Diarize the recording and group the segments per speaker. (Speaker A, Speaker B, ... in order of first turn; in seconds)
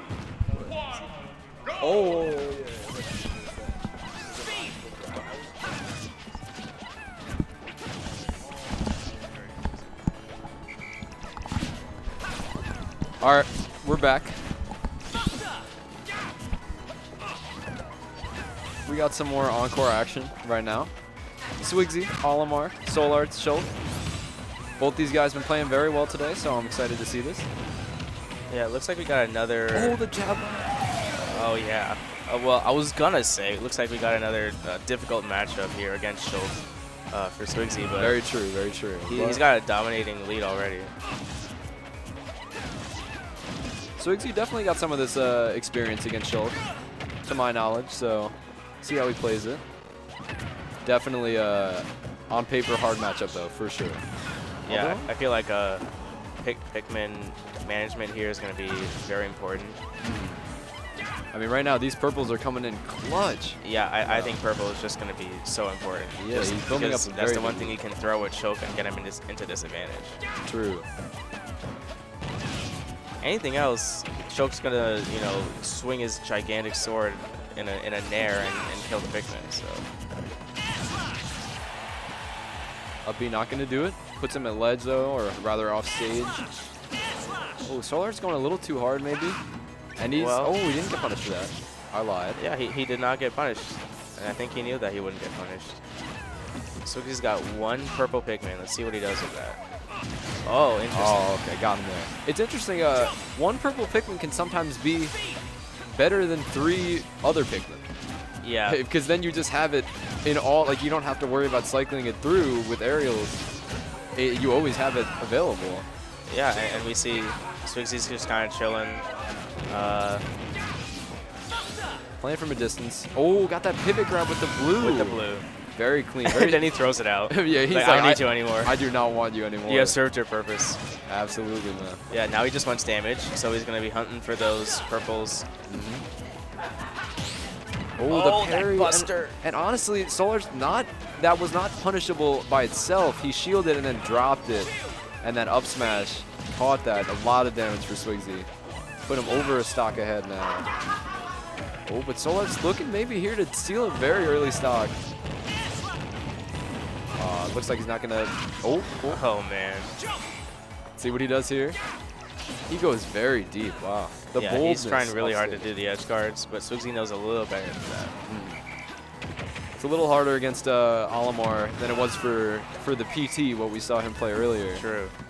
Speaker A: 0.5-0.8, 1.8-3.9, 4.5-5.0, 13.2-14.4, 18.9-20.9, 21.6-23.7, 24.8-27.5, 29.7-30.8, 38.0-39.4, 44.0-46.6, 47.2-49.6, 50.8-54.0, 54.6-55.1, 60.0-60.4, 61.3-64.4, 66.2-67.8, 70.5-70.9, 83.0-86.5, 87.6-89.4, 90.0-92.4, 100.9-105.2, 105.8-107.8, 108.7-113.4, 114.2-115.9, 122.2-126.7, 127.3-130.0, 131.1-132.0, 135.7-136.1, 138.0-144.7, 145.2-148.5, 149.1-150.7, 151.9-155.0, 157.2-159.2, 161.0-161.8, 162.7-165.7, 168.3-168.6, 169.8-174.8
Speaker B: 9.2-9.8, 28.5-30.0, 31.1-38.2, 39.0-40.9, 54.6-55.9, 56.4-59.8, 63.6-70.2, 73.2-79.9, 90.1-90.5, 92.4-95.8, 96.8-99.6, 100.5-101.2, 108.4-108.8, 116.3-119.1, 119.7-120.2, 124.8-125.5, 126.2-128.8, 129.7-130.8, 132.1-135.5, 138.1-139.4, 159.1-159.9, 164.3-168.2, 174.7-175.1